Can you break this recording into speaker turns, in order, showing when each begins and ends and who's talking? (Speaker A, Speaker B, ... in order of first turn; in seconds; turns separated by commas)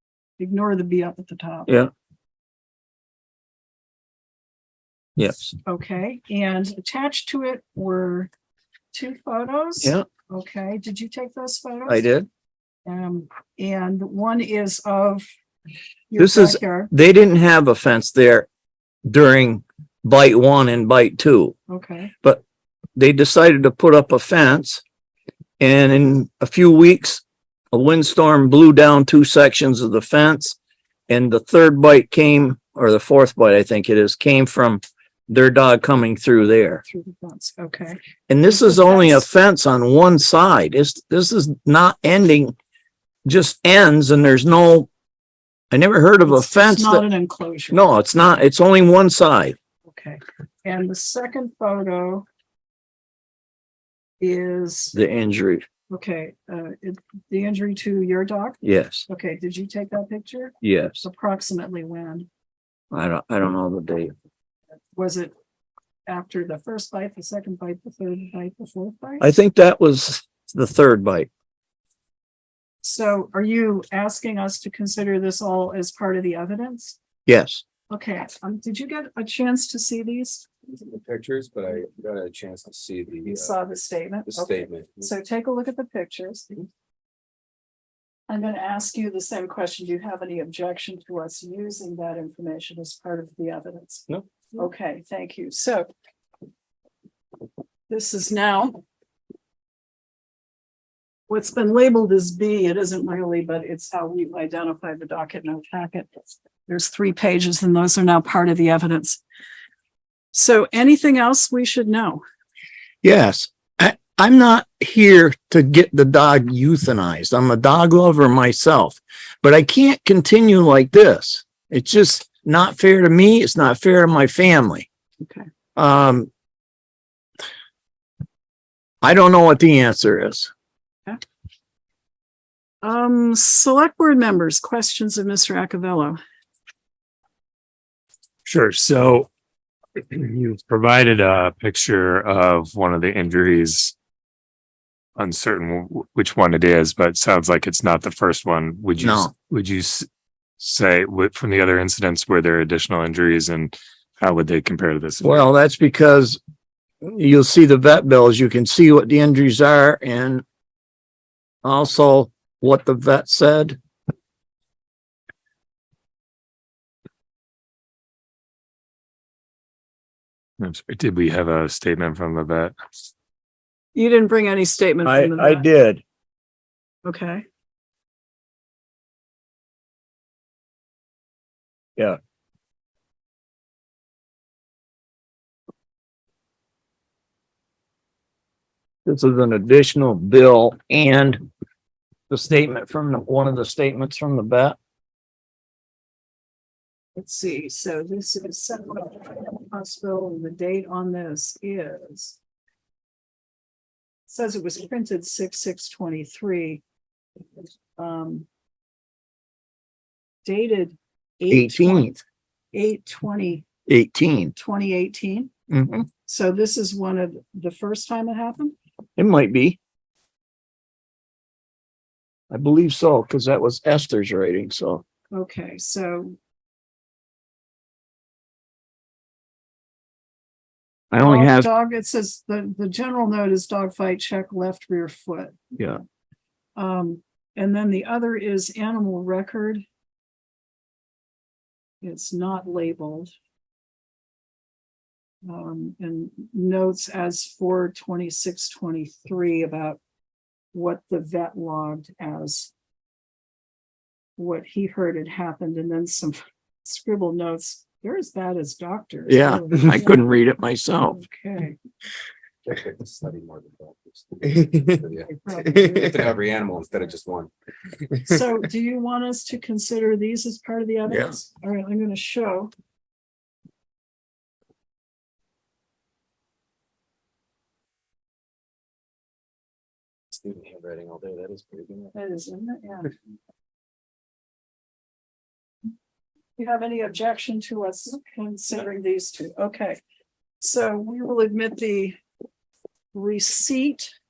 Speaker A: 0.4-1.7, Speaker B: 5.2-5.5, Speaker A: 5.7-8.3, Speaker A: 8.9-12.1, Speaker B: 11.9-12.3, Speaker A: 12.8-15.3, Speaker A: 16.1-16.9, Speaker B: 16.2-18.5, Speaker B: 19.1-21.6, Speaker A: 21.7-22.1, Speaker B: 23.0-24.8, Speaker B: 25.6-30.6, Speaker B: 31.1-36.8, Speaker A: 36.9-39.3, Speaker B: 38.3-42.5, Speaker B: 43.2-44.9, Speaker B: 45.7-47.0, Speaker A: 46.3-47.8, Speaker B: 47.7-49.6, Speaker A: 49.9-52.3, Speaker A: 54.2-55.0, Speaker B: 54.9-55.7, Speaker A: 55.9-62.3, Speaker B: 58.6-59.1, Speaker B: 60.6-61.0, Speaker B: 62.9-64.1, Speaker A: 65.0-65.3, Speaker A: 66.1-69.3, Speaker B: 69.2-71.3, Speaker A: 72.8-77.0, Speaker B: 77.3-77.6, Speaker A: 77.9-80.5, Speaker C: 80.7-83.6, Speaker A: 83.3-86.7, Speaker C: 84.3-85.1, Speaker A: 88.3-95.9, Speaker A: 97.9-98.8, Speaker A: 101.3-106.1, Speaker A: 106.7-109.2, Speaker A: 110.3-112.2, Speaker B: 113.0-124.9, Speaker B: 125.8-126.3, Speaker B: 129.0-130.5, Speaker A: 132.8-136.2, Speaker D: 138.4-139.3, Speaker D: 140.0-143.9, Speaker D: 145.2-150.1, Speaker B: 149.0-149.3, Speaker D: 150.6-155.5, Speaker B: 155.2-156.4, Speaker B: 157.0-160.4, Speaker B: 161.6-163.8, Speaker D: 170.6-172.8, Speaker A: 173.9-175.7, Speaker B: 175.0-176.0, Speaker A: 177.0-177.4, Speaker B: 189.1-191.4, Speaker B: 192.3-194.8, Speaker A: 197.2-202.4, Speaker A: 204.3-206.8, Speaker A: 208.0-208.5, Speaker A: 210.4-212.2, Speaker B: 211.5-212.2, Speaker A: 212.7-213.7, Speaker B: 213.9-214.6, Speaker A: 214.6-215.5, Speaker B: 215.7-216.1, Speaker A: 216.2-218.8, Speaker B: 219.2-219.8, Speaker B: 222.5-225.0, Speaker A: 225.3-226.4, Speaker B: 231.1-231.7, Speaker A: 231.2-235.7, Speaker A: 236.8-239.8, Speaker A: 242.0-243.3, Speaker A: 245.4-250.0, Speaker A: 250.7-252.7, Speaker A: 254.4-260.3, Speaker B: 259.3-261.2, Speaker A: 261.1-261.8, Speaker C: 262.7-267.5, Speaker A: 265.2-266.3, Speaker A: 268.2-272.7, Speaker B: 271.1-271.4, Speaker C: 280.3-282.1, Speaker A: 282.1-283.1, Speaker A: 286.6-290.0, Speaker A: 290.6-292.2, Speaker A: 293.1-294.1